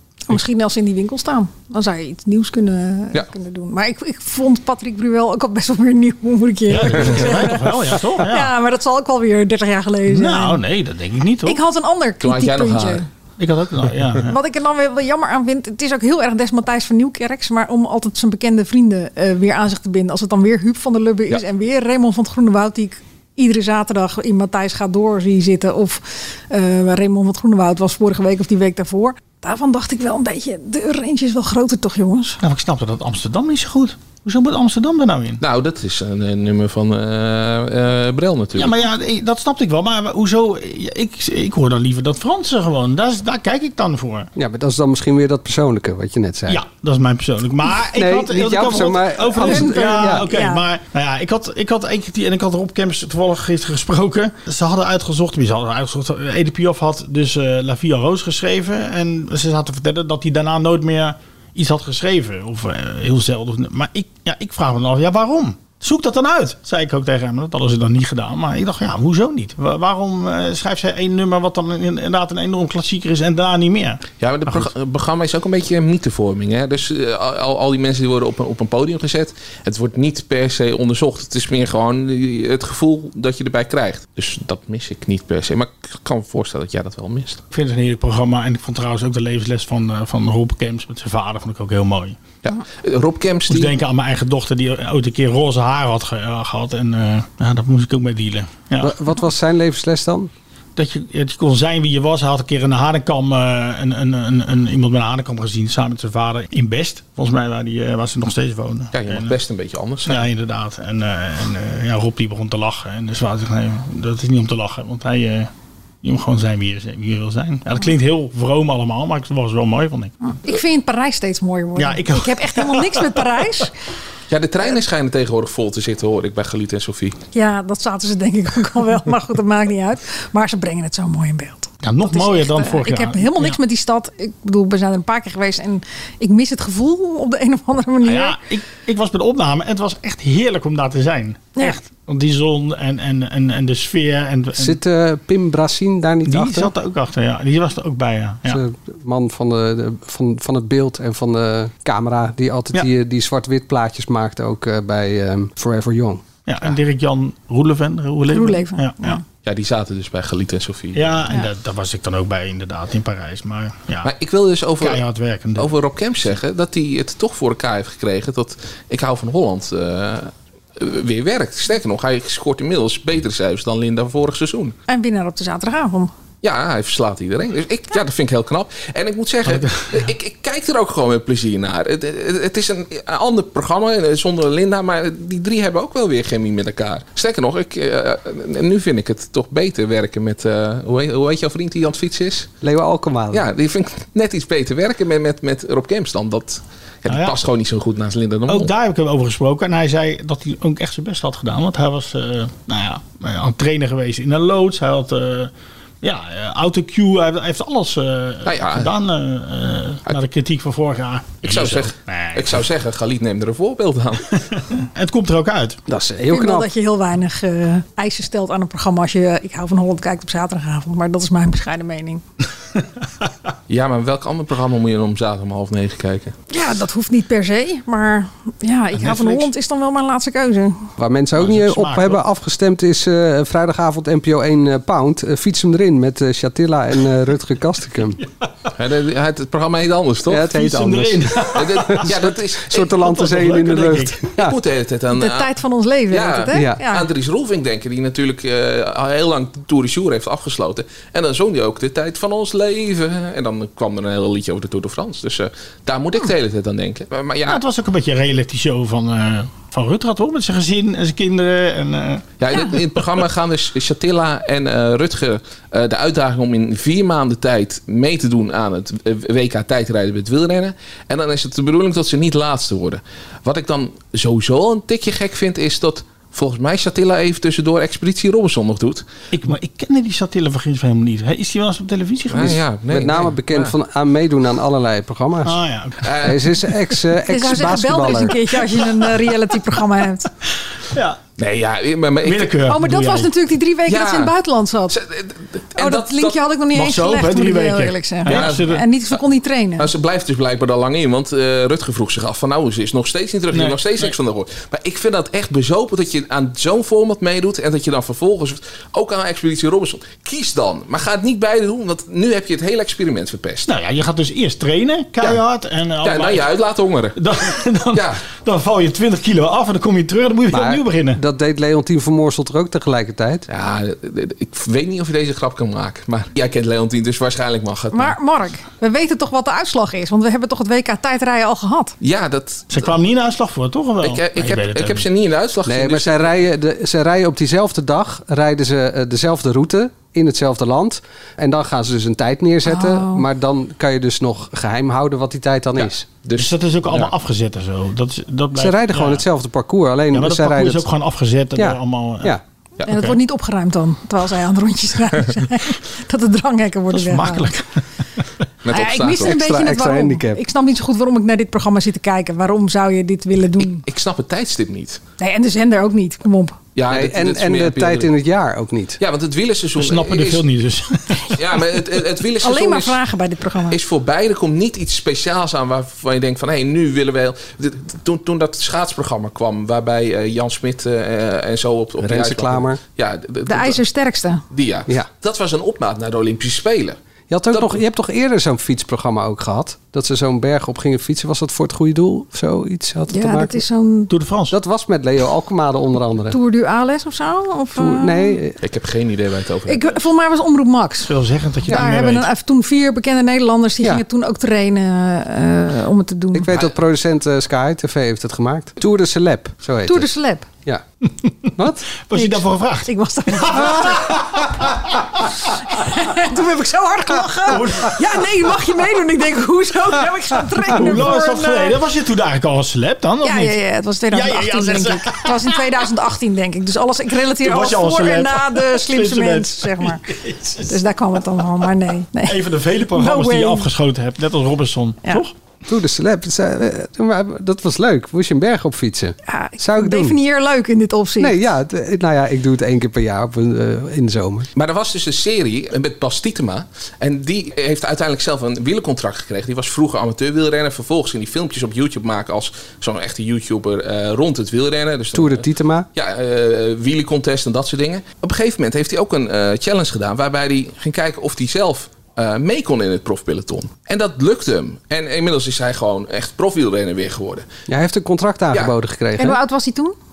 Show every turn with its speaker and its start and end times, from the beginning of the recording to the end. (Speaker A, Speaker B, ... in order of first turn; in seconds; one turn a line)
Speaker A: 0.3-10.6
Speaker B: 6.7-8.5
Speaker B: 10.1-11.6
Speaker A: 11.4-13.1
Speaker C: 12.2-13.0
Speaker B: 13.4-14.4
Speaker A: 14.3-32.4
Speaker B: 32.4-35.4
Speaker C: 35.4-38.8
Speaker B: 38.6-44.3
Speaker D: 44.4-46.6
Speaker B: 46.5-74.7
Speaker D: 47.9-50.3
Speaker A: 49.4-50.6
Speaker C: 74.2-87.4
Speaker B: 87.5-92.2
Speaker C: 92.4-93.8
Speaker B: 93.5-98.9
Speaker D: 98.8-100.3
Speaker B: 100.8-109.3
Speaker C: 108.9-110.3
Speaker B: 110.0-115.5
Speaker B: 116.0-120.1
Speaker A: 120.3-123.7
Speaker B: 121.8-123.2
Speaker C: 124.3-127.2
Speaker A: 127.3-138.4
Speaker B: 131.8-133.6
Speaker B: 138.0-144.8
Speaker D: 144.5-146.7
Speaker B: 146.2-148.6
Speaker D: 148.4-156.2
Speaker B: 156.5-159.2
Speaker A: 158.3-159.2
Speaker C: 159.4-161.2
Speaker B: 160.9-164.1
Speaker C: 164.0-165.0
Speaker B: 164.8-165.7
Speaker C: 165.6-174.8
Speaker A: 174.9-176.1
Speaker C: 176.4-192.5
Speaker B: 179.4-180.1
Speaker D: 192.6-193.4
Speaker C: 193.3-198.7
Speaker B: 197.1-197.4
Speaker B: 198.5-205.5
Speaker B: 206.0-212.6
Speaker C: 208.4-208.9
Speaker C: 211.4-214.3
Speaker B: 214.5-215.8
Speaker D: 215.9-216.7
Speaker A: 216.3-222.2
Speaker C: 223.7-226.3
Speaker A: 226.5-230.9
Speaker B: 228.9-229.5
Speaker D: 231.0-238.2
Speaker B: 231.4-232.2
Speaker C: 238.7-240.5
Speaker D: 240.3-244.6
Speaker B: 240.4-242.1
Speaker C: 241.5-243.0
Speaker B: 242.9-244.2
Speaker C: 244.3-245.5
Speaker A: 245.1-247.1
Speaker C: 246.1-257.6
Speaker D: 246.5-246.8
Speaker B: 257.5-262.2
Speaker C: 262.4-279.0
Speaker B: 279.3-282.6
Speaker C: 282.3-283.7
Speaker D: 282.9-285.6
Speaker B: 285.4-286.3
Speaker C: 286.0-286.5
Speaker D: 286.2-288.4
Speaker A: 287.3-290.3
Speaker B: 290.9-291.2
Speaker C: 291.4-292.6
Speaker B: 292.2-293.3
Speaker A: 292.7-295.0
Speaker C: 293.9-294.3
Speaker C: 294.9-296.4
Speaker A: 295.8-299.9
Speaker B: 296.7-298.8
Speaker C: 298.2-298.7
Speaker C: 299.8-313.7
Speaker B: 303.5-304.1
Speaker B: 313.6-316.4
Speaker C: 316.0-317.2
Speaker B: 317.2-321.2
Speaker C: 317.9-318.2
Speaker D: 320.5-323.4
Speaker C: 323.5-328.1
Speaker A: 327.9-331.9
Speaker C: 332.0-332.8
Speaker B: 332.7-335.1
Speaker C: 334.0-336.3
Speaker D: 335.6-346.1
Speaker A: 342.6-343.2
Speaker C: 345.8-347.1
Speaker B: 346.4-349.2
Speaker D: 348.5-350.9
Speaker B: 350.1-352.4
Speaker D: 351.6-352.4
Speaker A: 352.9-357.5
Speaker B: 352.9-353.2
Speaker B: 356.9-358.2
Speaker C: 358.6-359.3
Speaker A: 358.7-363.8
Speaker D: 359.2-360.4
Speaker C: 363.6-365.0
Speaker A: 365.2-366.6
Speaker C: 366.7-368.1
Speaker D: 366.9-369.0
Speaker C: 369.0-370.4
Speaker B: 369.8-371.4
Speaker C: 371.3-373.0
Speaker A: 372.4-373.8
Speaker C: 373.7-383.8
Speaker D: 382.0-382.8
Speaker A: 383.5-384.4
Speaker C: 384.5-387.0
Speaker D: 387.3-393.6
Speaker C: 387.5-387.8
Speaker A: 393.1-394.1
Speaker B: 394.1-394.6
Speaker D: 394.5-396.4
Speaker A: 396.3-398.4
Speaker D: 397.7-398.6
Speaker C: 398.6-400.0
Speaker A: 399.7-401.1
Speaker B: 401.1-402.3
Speaker A: 401.7-406.5
Speaker D: 406.3-410.1
Speaker A: 409.9-410.5
Speaker D: 411.6-411.9
Speaker B: 412.1-415.0
Speaker A: 412.1-414.2
Speaker A: 415.4-421.8
Speaker B: 417.4-418.3
Speaker B: 420.6-423.6
Speaker A: 423.2-430.0
Speaker B: 424.1-425.7
Speaker B: 427.4-430.8
Speaker A: 430.7-432.4
Speaker B: 432.2-435.3
Speaker A: 432.9-433.7
Speaker D: 435.7-440.2
Speaker A: 439.3-441.4
Speaker D: 441.2-444.5
Speaker C: 444.6-467.5
Speaker D: 455.1-455.9
Speaker D: 467.7-469.4
Speaker A: 469.2-469.9